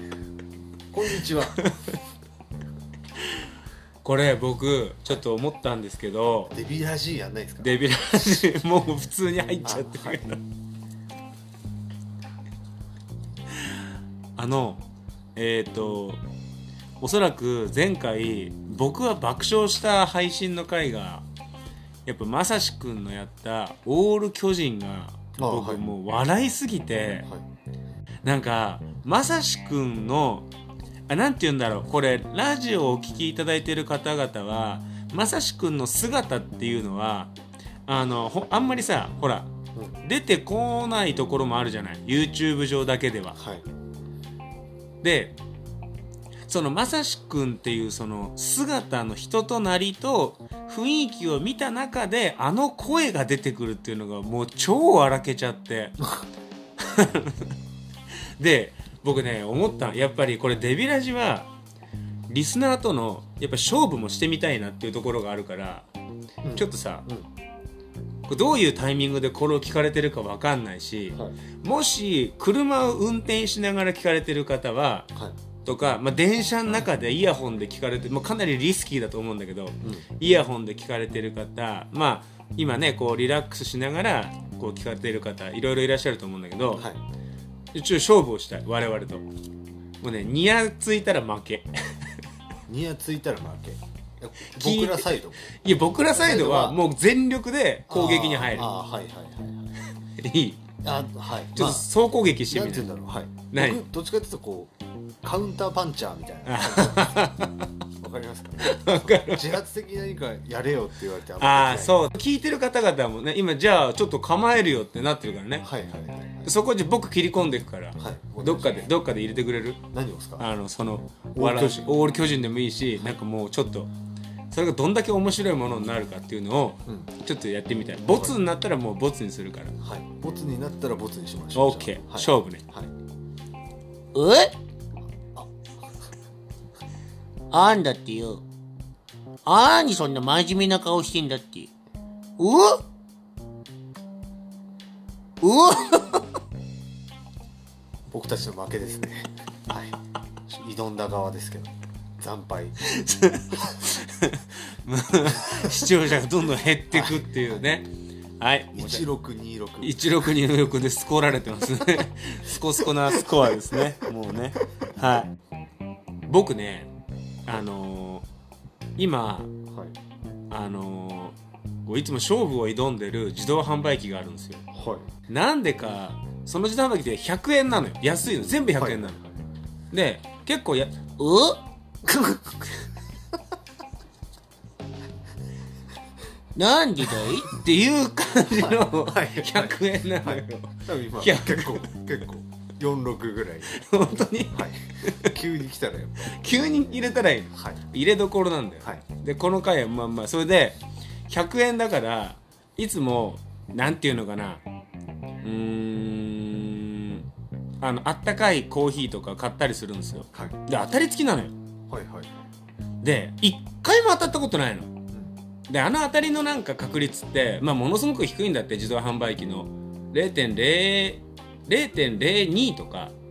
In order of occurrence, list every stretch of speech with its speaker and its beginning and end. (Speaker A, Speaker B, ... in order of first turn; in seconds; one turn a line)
Speaker A: 0.9-1.6
Speaker B: 1.6-1.9
Speaker B: 4.0-6.5
Speaker A: 6.5-7.8
Speaker B: 7.6-10.4
Speaker A: 9.7-10.4
Speaker B: 14.4-16.2
Speaker B: 17.0-21.2
Speaker B: 22.1-27.3
Speaker A: 25.4-25.9
Speaker B: 28.2-30.5
Speaker B: 31.1-37.3
Speaker B: 37.9-39.5
Speaker B: 40.0-43.4
Speaker A: 43.4-43.7
Speaker B: 45.0-45.4
Speaker B: 46.5-56.1
Speaker B: 56.8-57.5
Speaker B: 58.4-61.5
Speaker B: 62.3-65.9
Speaker A: 66.4-67.3
Speaker B: 66.5-67.1
Speaker B: 68.3-75.1
Speaker B: 75.7-86.9
Speaker A: 86.8-87.0
Speaker B: 87.7-89.3
Speaker B: 90.0-92.2
Speaker A: 92.7-95.5
Speaker B: 94.5-98.7
Speaker A: 96.1-96.8
Speaker A: 97.9-99.7
Speaker B: 100.0-100.7
Speaker A: 100.8-101.9
Speaker B: 101.5-102.9
Speaker A: 102.5-104.7
Speaker B: 103.5-103.8
Speaker A: 105.2-107.2
Speaker B: 106.5-107.7
Speaker A: 108.0-112.0
Speaker B: 108.6-109.6
Speaker B: 111.4-115.7
Speaker A: 115.6-116.5
Speaker B: 116.4-119.8
Speaker A: 118.0-118.9
Speaker A: 119.9-120.5
Speaker B: 120.4-123.9
Speaker A: 121.3-122.0
Speaker B: 124.5-129.8
Speaker A: 128.1-128.4
Speaker A: 129.8-132.9
Speaker B: 131.5-132.7
Speaker C: 134.1-134.6
Speaker A: 135.0-135.5
Speaker C: 137.5-138.4
Speaker C: 139.5-141.7
Speaker C: 142.4-142.8
Speaker C: 145.4-146.2
Speaker A: 148.1-152.8
Speaker B: 152.8-159.1
Speaker A: 156.9-157.4
Speaker A: 158.7-160.3
Speaker B: 159.8-165.3
Speaker B: 166.3-166.9
Speaker B: 167.4-168.3
Speaker B: 169.0-169.5
Speaker A: 169.7-170.0
Speaker B: 170.5-174.7
Speaker A: 174.7-175.1
Speaker B: 175.3-179.2
Speaker A: 178.8-179.4
Speaker B: 179.9-181.1
Speaker C: 181.2-181.6
Speaker C: 186.6-187.5
Speaker B: 187.4-192.0
Speaker A: 188.5-193.8
Speaker B: 193.7-195.3
Speaker A: 194.5-197.8
Speaker B: 196.2-204.6
Speaker B: 205.4-207.3
Speaker B: 207.8-211.5
Speaker A: 210.3-210.6
Speaker A: 211.9-212.3
Speaker B: 213.0-214.9
Speaker B: 215.7-223.1